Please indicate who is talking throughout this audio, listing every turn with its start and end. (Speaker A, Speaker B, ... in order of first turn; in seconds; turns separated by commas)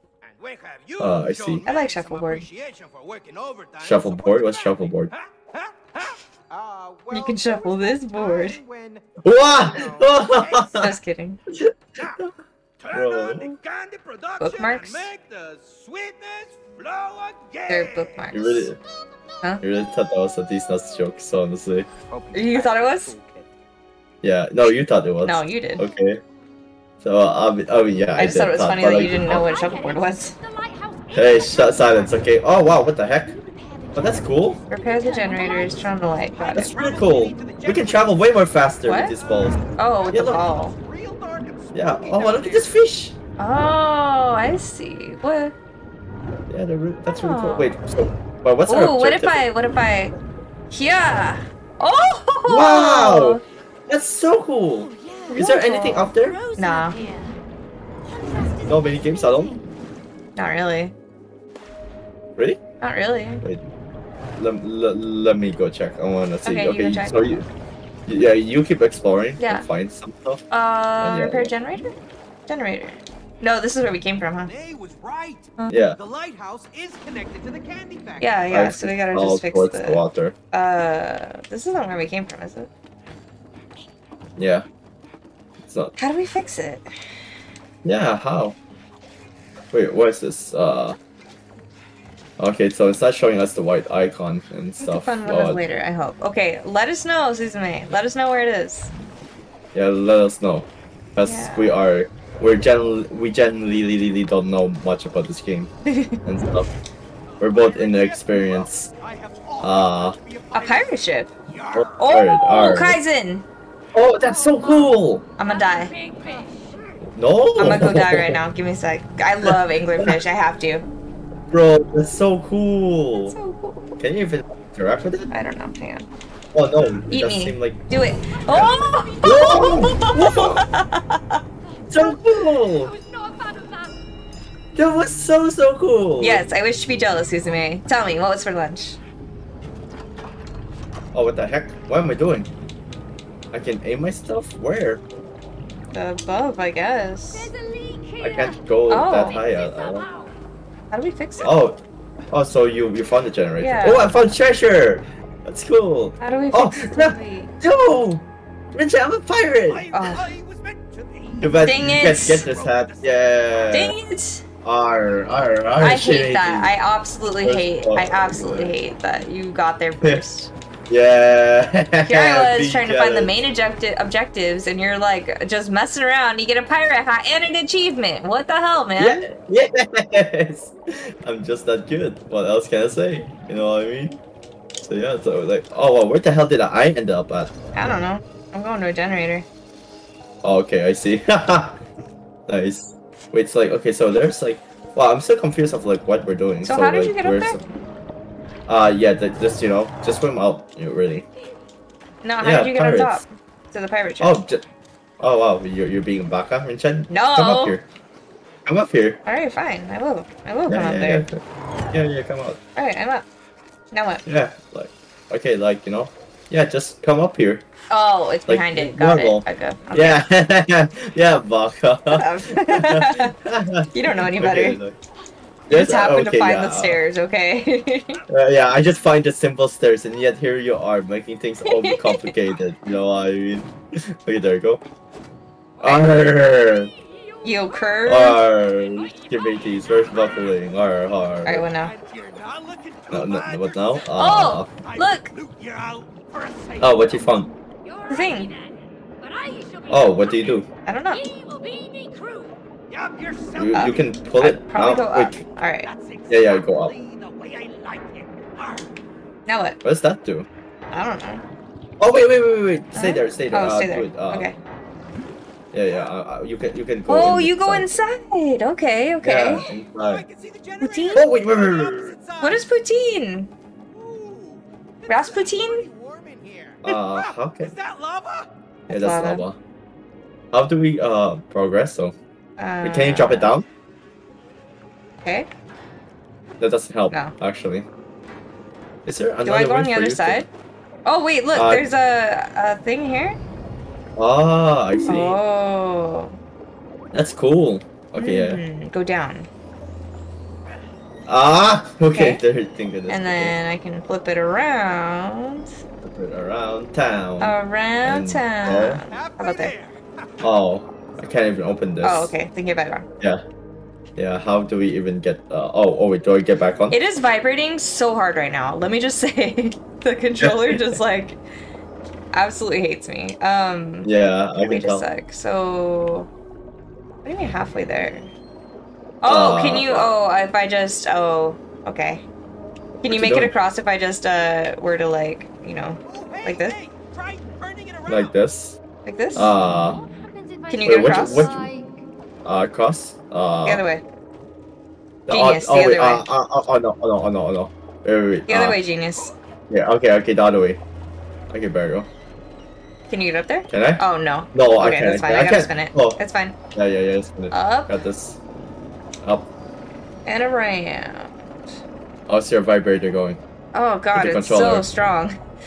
Speaker A: 0.2-11.0, Speaker B: 1.0-1.6, Speaker C: 1.7-2.5, Speaker B: 3.8-5.1, Speaker C: 7.1-8.6, Speaker B: 9.2-10.9, Speaker C: 10.8-11.4, Speaker B: 11.5-12.3, Speaker A: 12.0-18.4, Speaker B: 12.9-13.5, Speaker C: 14.4-15.1, Speaker C: 17.7-18.7, Speaker B: 18.3-18.8, Speaker B: 19.6-21.9, Speaker A: 22.1-23.5, Speaker C: 22.3-23.1, Speaker B: 24.2-26.2, Speaker C: 25.2-25.8, Speaker B: 27.0-29.5, Speaker C: 28.2-30.4, Speaker D: 29.1-32.5, Speaker B: 31.1-33.3, Speaker D: 33.3-36.0, Speaker B: 34.0-34.6, Speaker C: 34.7-36.8, Speaker A: 36.3-42.7, Speaker B: 36.5-39.6, Speaker C: 38.9-39.2, Speaker C: 39.8-40.8, Speaker B: 40.1-40.4, Speaker B: 41.7-43.1, Speaker C: 43.4-45.5, Speaker B: 46.5-49.4, Speaker C: 47.2-47.8, Speaker C: 48.7-50.1, Speaker C: 50.7-53.4, Speaker B: 52.5-56.4, Speaker D: 54.8-55.5, Speaker C: 55.3-57.0, Speaker D: 56.1-57.4, Speaker D: 58.0-59.6, Speaker B: 58.7-59.5, Speaker C: 60.4-60.9, Speaker C: 62.8-63.4, Speaker B: 64.4-67.5, Speaker C: 66.4-67.3, Speaker B: 68.1-70.4, Speaker C: 69.4-69.7, Speaker C: 70.5-71.9, Speaker B: 71.0-71.5, Speaker C: 72.5-74.5, Speaker A: 74.5-78.4, Speaker B: 75.7-76.0, Speaker C: 78.2-82.7, Speaker B: 78.5-80.3, Speaker B: 84.4-84.7, Speaker B: 85.6-86.0, Speaker C: 86.0-86.9, Speaker B: 87.8-88.6, Speaker B: 89.7-91.0, Speaker B: 92.4-95.6, Speaker C: 94.8-98.9, Speaker B: 99.7-105.7, Speaker C: 101.2-101.7, Speaker C: 105.9-106.2, Speaker B: 106.2-106.7, Speaker A: 107.4-112.2, Speaker B: 107.4-108.9, Speaker B: 109.6-110.2, Speaker C: 110.5-111.3, Speaker B: 111.7-113.0, Speaker C: 112.0-113.5, Speaker B: 113.9-115.2, Speaker D: 114.4-116.8, Speaker C: 115.4-115.9, Speaker B: 117.1-118.4, Speaker C: 117.6-120.9, Speaker B: 119.4-120.2, Speaker B: 121.5-123.4, Speaker C: 123.3-124.0, Speaker B: 124.0-125.3, Speaker C: 125.3-126.1, Speaker B: 126.5-127.8, Speaker C: 127.1-131.4, Speaker B: 129.2-130.7, Speaker D: 131.7-134.0, Speaker B: 131.9-132.9, Speaker B: 134.8-136.4, Speaker C: 136.2-139.0, Speaker B: 141.1-142.5, Speaker B: 143.5-145.0, Speaker C: 145.9-147.5, Speaker D: 147.4-150.4, Speaker B: 148.2-150.1, Speaker C: 148.9-149.4, Speaker C: 150.9-151.5, Speaker B: 151.4-159.8, Speaker C: 153.6-154.2, Speaker C: 156.2-157.5, Speaker A: 159.7-163.9, Speaker C: 159.9-160.3, Speaker B: 161.4-163.9, Speaker C: 161.6-162.5, Speaker C: 163.7-164.4, Speaker B: 164.6-166.7, Speaker C: 165.8-170.5, Speaker B: 167.4-168.8, Speaker B: 170.9-173.3, Speaker C: 172.1-179.2, Speaker B: 179.0-184.2, Speaker B: 184.8-187.5, Speaker C: 187.7-189.5, Speaker B: 190.4-191.8, Speaker B: 192.5-197.6, Speaker C: 196.6-197.7, Speaker B: 198.7-201.3, Speaker C: 202.2-204.4, Speaker B: 202.4-203.2, Speaker B: 204.2-204.6, Speaker B: 205.2-207.8, Speaker C: 207.1-207.8, Speaker B: 208.7-209.2, Speaker C: 209.3-211.3, Speaker B: 210.7-212.6, Speaker C: 212.8-213.3, Speaker C: 213.9-214.2, Speaker B: 214.3-217.6, Speaker C: 217.9-220.2, Speaker B: 218.5-225.0, Speaker C: 222.1-223.3, Speaker C: 223.9-224.8, Speaker B: 225.7-227.0, Speaker C: 225.7-228.2, Speaker B: 228.3-234.8, Speaker C: 231.7-232.3, Speaker D: 235.8-240.8, Speaker B: 235.8-236.9, Speaker C: 237.4-238.4, Speaker B: 238.1-241.6, Speaker C: 241.4-241.9, Speaker A: 241.6-244.1, Speaker B: 243.1-244.7, Speaker C: 244.1-245.3, Speaker A: 244.7-247.2, Speaker B: 246.8-247.5, Speaker D: 247.8-252.6, Speaker C: 248.1-248.5, Speaker B: 249.9-250.7, Speaker C: 250.8-251.2, Speaker A: 252.9-254.1, Speaker B: 253.6-255.4, Speaker C: 253.7-255.9, Speaker A: 255.8-258.9, Speaker B: 256.3-256.9, Speaker C: 259.5-259.8, Speaker B: 259.8-260.5, Speaker C: 260.9-261.4, Speaker B: 262.0-264.5, Speaker C: 262.9-264.6, Speaker B: 265.7-268.0, Speaker C: 267.1-269.7, Speaker B: 269.2-270.2, Speaker A: 270.0-272.7, Speaker C: 270.8-271.3, Speaker B: 271.1-272.1, Speaker C: 272.4-273.5, Speaker A: 273.9-278.5, Speaker C: 275.1-275.9, Speaker B: 276.8-277.8, Speaker C: 278.9-279.4, Speaker B: 278.9-279.6, Speaker B: 280.5-282.2, Speaker C: 282.6-283.5, Speaker B: 282.8-283.7, Speaker B: 286.6-287.9, Speaker B: 289.1-290.5, Speaker C: 289.5-290.5, Speaker C: 291.1-293.4, Speaker B: 291.5-291.9, Speaker B: 294.2-295.4, Speaker C: 294.9-296.4, Speaker B: 297.1-298.6, Speaker C: 298.2-299.5, Speaker B: 301.3-303.6, Speaker C: 302.1-302.4, Speaker C: 303.1-305.7, Speaker B: 306.0-309.0, Speaker C: 307.4-309.7, Speaker A: 309.0-310.4, Speaker B: 310.4-312.3, Speaker C: 312.0-313.1, Speaker B: 314.2-317.0, Speaker C: 316.9-321.4, Speaker B: 320.4-321.0, Speaker C: 322.3-324.1, Speaker B: 324.0-325.1, Speaker C: 324.7-326.3, Speaker C: 327.2-328.3, Speaker C: 329.2-332.2, Speaker B: 329.2-330.2, Speaker B: 333.0-333.6, Speaker C: 333.0-336.8, Speaker A: 336.1-338.3, Speaker B: 338.1-338.8, Speaker C: 339.1-339.5, Speaker B: 339.4-340.0, Speaker D: 339.5-342.0, Speaker C: 340.7-341.5, Speaker B: 340.8-341.7, Speaker B: 342.4-343.8, Speaker C: 343.6-344.0, Speaker B: 345.3-348.8, Speaker C: 345.3-346.2, Speaker C: 348.5-349.4, Speaker B: 349.7-350.8, Speaker B: 351.5-352.1, Speaker C: 353.1-356.6, Speaker B: 353.7-354.0, Speaker B: 354.5-356.2, Speaker B: 356.8-358.4, Speaker C: 357.5-357.9, Speaker C: 360.3-361.3, Speaker B: 362.3-363.4, Speaker C: 363.7-365.4, Speaker B: 364.1-364.9